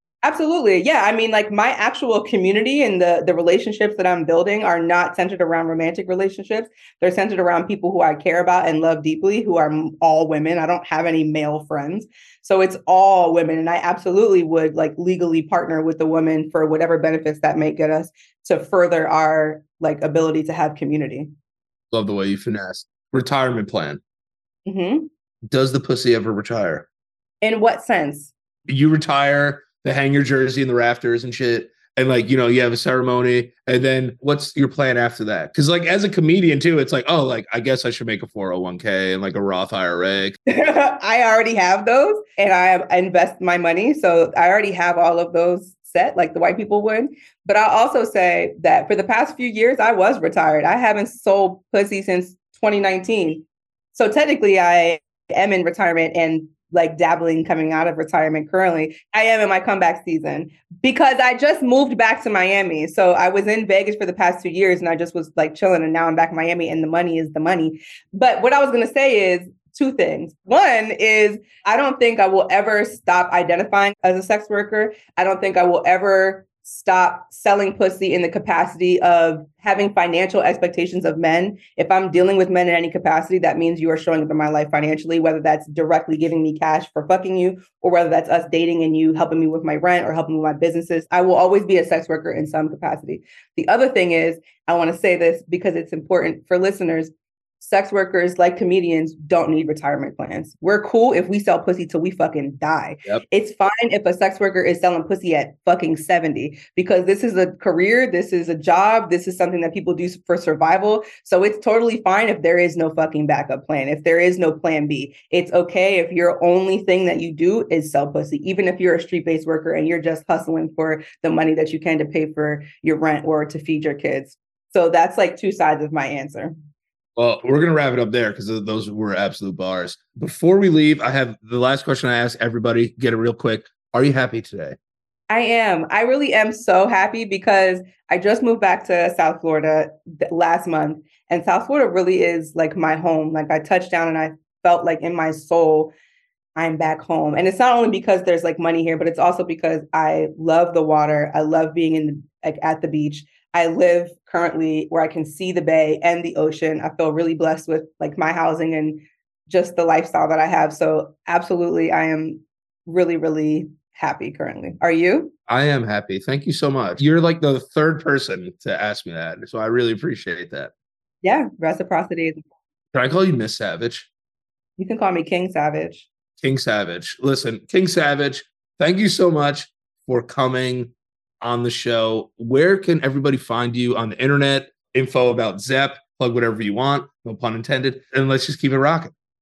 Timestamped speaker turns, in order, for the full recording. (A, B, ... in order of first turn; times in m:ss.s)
0:00.2-0:21.3 A
0:21.9-0:24.0 B
0:24.6-0:25.1 A
0:25.4-0:26.9 B
0:27.4-0:28.3 A
0:28.7-0:40.4 B
0:40.5-2:06.6 A
2:07.2-2:14.8 B
2:15.3-2:25.9 A
2:26.6-2:45.3 A
2:45.5-2:50.7 B
2:51.2-2:52.4 A
2:52.9-2:54.1 B
2:54.8-2:56.1 A
2:56.4-3:09.1 B